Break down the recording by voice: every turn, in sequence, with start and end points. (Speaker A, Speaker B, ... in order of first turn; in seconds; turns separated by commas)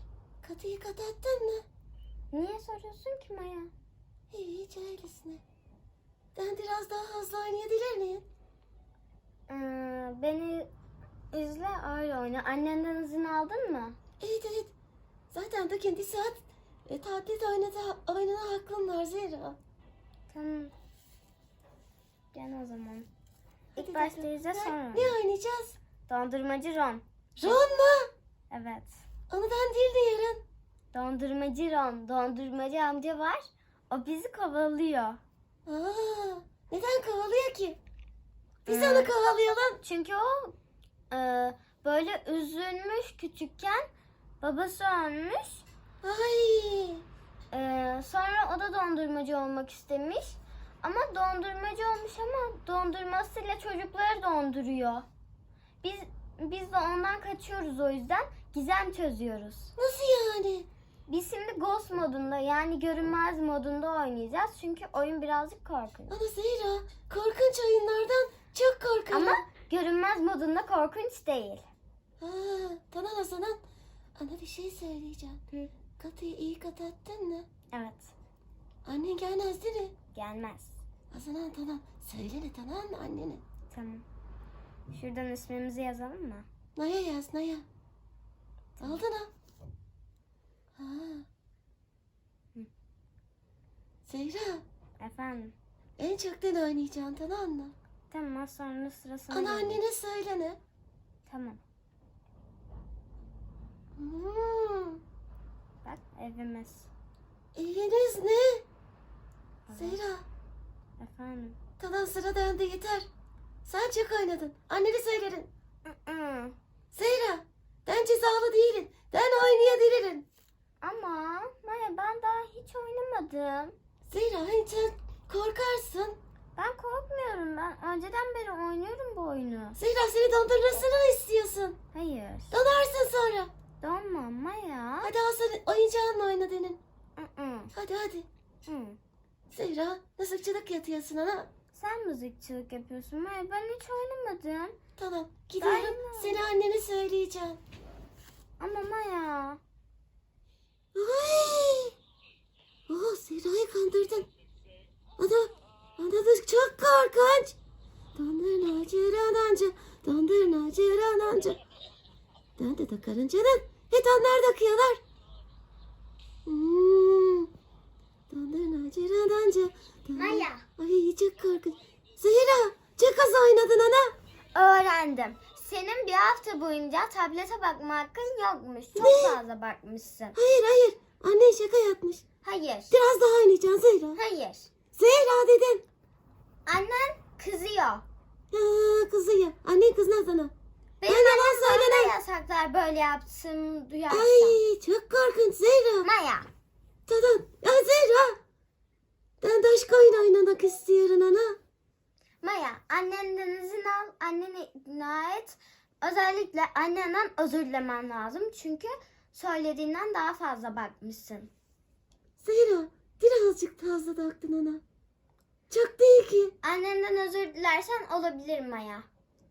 Speaker A: 0.4-1.6, Speaker B: 2.3-3.7, Speaker A: 4.3-5.4, Speaker A: 6.3-8.2, Speaker B: 9.5-10.7, Speaker B: 11.3-14.0, Speaker A: 14.2-14.7, Speaker A: 15.3-19.6, Speaker B: 20.3-20.7, Speaker B: 22.3-23.1, Speaker A: 23.7-25.8, Speaker B: 23.8-25.1, Speaker B: 26.1-27.6, Speaker A: 27.4-28.1, Speaker B: 28.5-29.0, Speaker A: 29.3-30.4, Speaker B: 30.9-35.2, Speaker A: 35.6-37.8, Speaker A: 38.6-39.8, Speaker B: 38.7-39.1, Speaker B: 39.8-40.5, Speaker B: 41.1-43.9, Speaker B: 44.4-45.6, Speaker A: 46.0-47.0, Speaker B: 47.5-55.1, Speaker B: 55.8-59.7, Speaker A: 59.8-60.7, Speaker B: 61.1-66.1, Speaker A: 66.1-69.4, Speaker B: 69.1-71.6, Speaker A: 72.2-73.6, Speaker A: 74.2-75.4, Speaker A: 76.0-77.5, Speaker B: 77.7-78.1, Speaker A: 78.8-79.9, Speaker B: 80.1-80.8, Speaker A: 81.1-83.4, Speaker B: 83.7-84.0, Speaker B: 84.9-86.5, Speaker A: 86.7-87.7, Speaker A: 88.8-89.3, Speaker A: 90.8-91.3, Speaker A: 94.0-94.6, Speaker B: 95.0-95.5, Speaker A: 96.0-97.7, Speaker B: 98.1-99.8, Speaker A: 99.3-100.6, Speaker B: 101.2-101.6, Speaker A: 104.0-105.0, Speaker B: 105.8-106.9, Speaker A: 107.5-108.6, Speaker B: 109.7-110.0, Speaker A: 109.7-110.2, Speaker B: 111.0-111.6, Speaker A: 111.8-113.1, Speaker A: 113.6-115.5, Speaker B: 115.8-116.5, Speaker A: 116.9-120.2, Speaker B: 120.8-123.7, Speaker A: 124.1-126.2, Speaker B: 126.5-129.8, Speaker A: 129.8-131.8, Speaker B: 131.9-132.5, Speaker A: 132.5-133.5, Speaker B: 133.8-135.1, Speaker A: 135.0-136.8, Speaker B: 137.2-137.7, Speaker A: 137.7-138.3, Speaker B: 138.6-139.0, Speaker A: 139.5-141.5, Speaker B: 141.7-144.8, Speaker A: 145.0-147.6, Speaker B: 145.6-146.4, Speaker B: 148.6-149.6, Speaker A: 150.9-151.9, Speaker A: 152.9-154.3, Speaker A: 155.2-157.6, Speaker A: 158.2-161.6, Speaker A: 162.6-165.0, Speaker A: 166.4-167.5, Speaker A: 168.3-174.1, Speaker B: 170.1-170.7, Speaker B: 174.5-180.3, Speaker A: 178.9-179.4, Speaker A: 180.3-182.2, Speaker B: 182.4-182.9, Speaker A: 182.9-184.2, Speaker B: 184.2-184.7, Speaker A: 184.9-185.8, Speaker B: 186.7-188.0, Speaker A: 188.5-190.5, Speaker B: 191.0-194.6, Speaker A: 191.1-192.1, Speaker A: 194.1-196.1, Speaker B: 196.0-196.5, Speaker A: 197.1-198.4, Speaker A: 199.4-201.6, Speaker B: 202.4-211.5, Speaker A: 212.4-214.8, Speaker A: 215.7-216.5, Speaker B: 216.6-219.1